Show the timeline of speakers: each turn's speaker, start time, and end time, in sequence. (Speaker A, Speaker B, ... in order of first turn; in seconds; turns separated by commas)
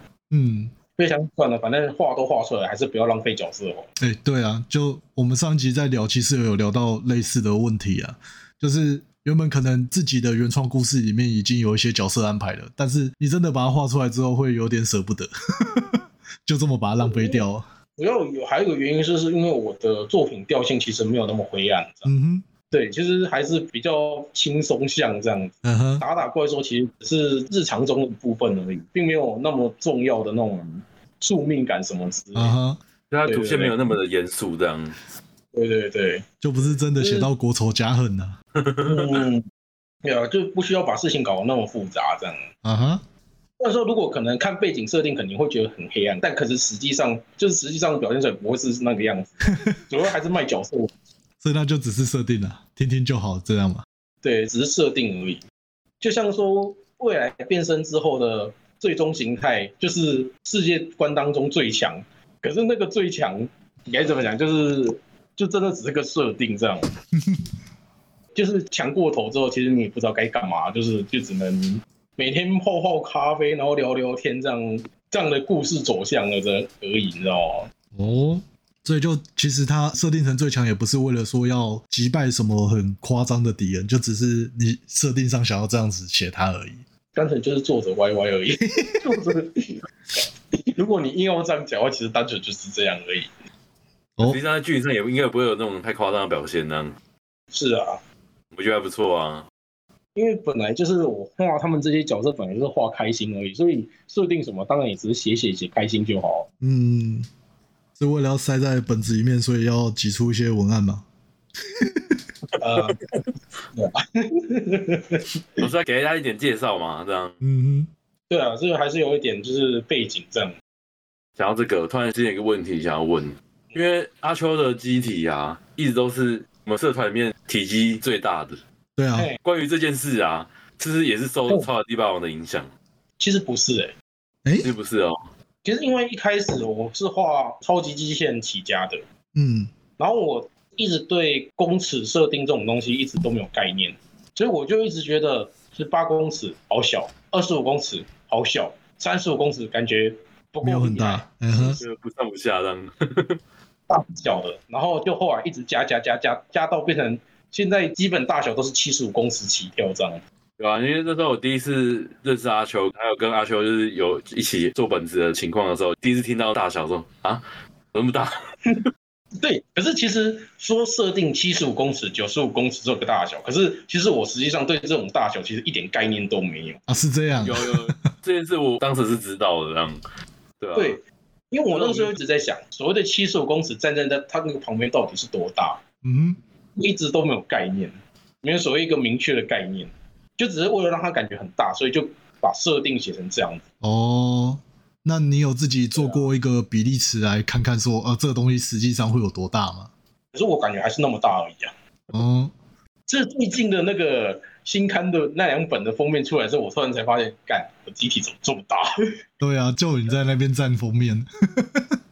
Speaker A: 0.3-0.7, Speaker B: 1.0-3.9, Speaker A: 4.0-17.6, Speaker B: 17.0-17.4, Speaker B: 18.0-22.1, Speaker A: 22.1-22.4, Speaker B: 22.7-32.5, Speaker A: 25.6-26.0, Speaker A: 32.4-32.8, Speaker C: 33.1-35.0, Speaker B: 33.3-33.8, Speaker B: 35.5-37.3, Speaker A: 36.4-38.4, Speaker C: 38.6-39.2, Speaker B: 38.8-39.4, Speaker B: 40.0-42.5, Speaker A: 42.6-43.0, Speaker B: 43.6-50.9, Speaker A: 51.4-53.9, Speaker B: 54.2-55.4, Speaker B: 56.0-66.9, Speaker B: 68.3-77.7, Speaker A: 78.0-86.8, Speaker B: 87.1-89.8, Speaker B: 90.7-93.3, Speaker C: 94.2-96.9, Speaker B: 97.5-98.0, Speaker C: 98.5-99.5, Speaker B: 100.2-106.5, Speaker A: 106.6-107.3, Speaker A: 108.0-111.0, Speaker A: 111.8-112.2, Speaker B: 112.6-113.0, Speaker B: 113.8-115.6, Speaker C: 115.6-117.3, Speaker A: 117.4-117.9, Speaker B: 118.3-120.5, Speaker C: 121.4-128.6, Speaker A: 129.0-129.3, Speaker C: 129.4-132.7, Speaker B: 133.2-133.9, Speaker A: 134.4-134.7, Speaker C: 134.6-135.2, Speaker B: 135.6-139.0, Speaker A: 139.3-139.7, Speaker B: 140.0-151.8, Speaker A: 150.6-151.8, Speaker C: 151.8-153.4, Speaker B: 153.9-160.2, Speaker C: 160.6-168.3, Speaker B: 169.4-176.8, Speaker A: 176.9-177.9, Speaker C: 177.4-180.0, Speaker C: 180.6-181.0, Speaker B: 180.8-185.8, Speaker C: 181.7-182.2, Speaker A: 186.0-186.4, Speaker B: 186.8-193.6, Speaker A: 193.8-199.9, Speaker B: 195.9-196.3, Speaker B: 200.3-201.7, Speaker A: 202.1-202.5, Speaker B: 203.1-208.9, Speaker A: 209.4-211.9